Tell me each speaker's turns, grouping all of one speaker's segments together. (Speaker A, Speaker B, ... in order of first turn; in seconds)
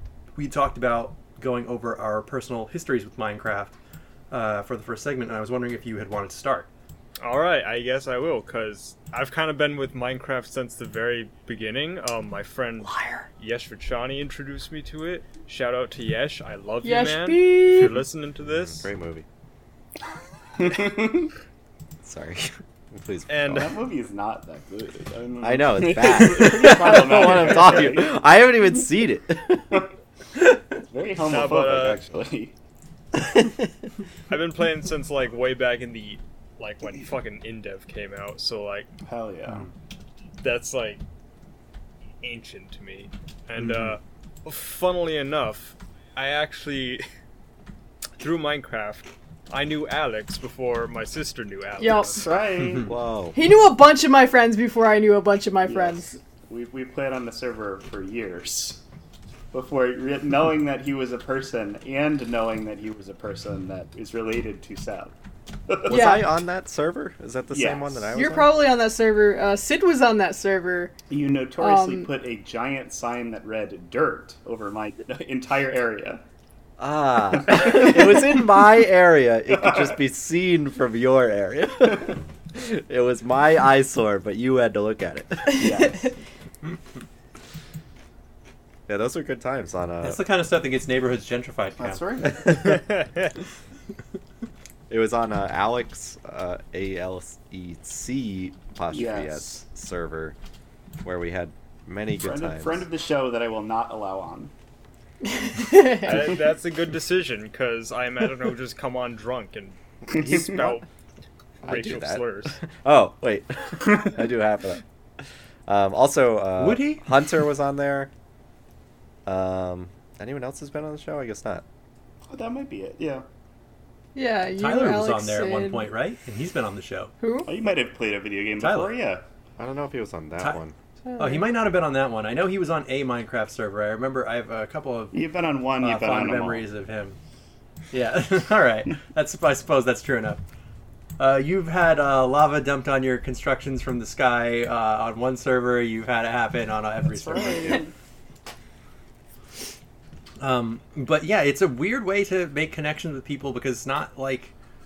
Speaker A: 0.3-3.7, 4.3-6.7, 90.0-92.0, 116.6-117.0, 124.6-127.1, 128.6-128.9, 131.2-135.2, 135.8-137.2, 137.9-140.4, 141.2-147.8, 150.4-154.5
Speaker B: 7.2-18.9, 23.3-23.7, 27.3-27.8, 31.2-32.0, 34.3-38.9, 40.4-41.0, 42.2-47.0, 48.2-52.3, 92.5-93.3, 105.8-110.8, 111.6-112.6
Speaker C: 12.8-13.3, 16.8-18.0, 51.8-52.2, 53.3-56.1, 65.9-66.2, 68.1-70.9, 71.6-72.1, 105.2-106.2, 124.1-125.8, 127.2-127.5, 131.0-131.5
Speaker D: 18.4-19.2, 22.0-23.7, 25.4-29.8, 52.8-53.4, 65.8-68.5, 76.8-85.8, 88.9-90.2, 94.9-100.3, 101.0-102.8, 111.6-114.8, 115.7-118.1, 119.2-121.6, 129.6-130.7
Speaker E: 20.6-21.3, 23.4-28.2, 30.8-32.5, 39.0-39.7, 43.6-43.9, 52.0-52.9, 55.6-58.8, 59.5-65.1, 65.7-66.0, 67.5-68.1, 71.1-76.2, 77.4-78.4, 79.5-80.0, 85.5-86.0, 91.8-92.6, 98.9-99.6, 102.2-104.5, 110.1-110.5, 122.3-123.2, 127.5-129.2, 135.1-136.7, 147.1-147.9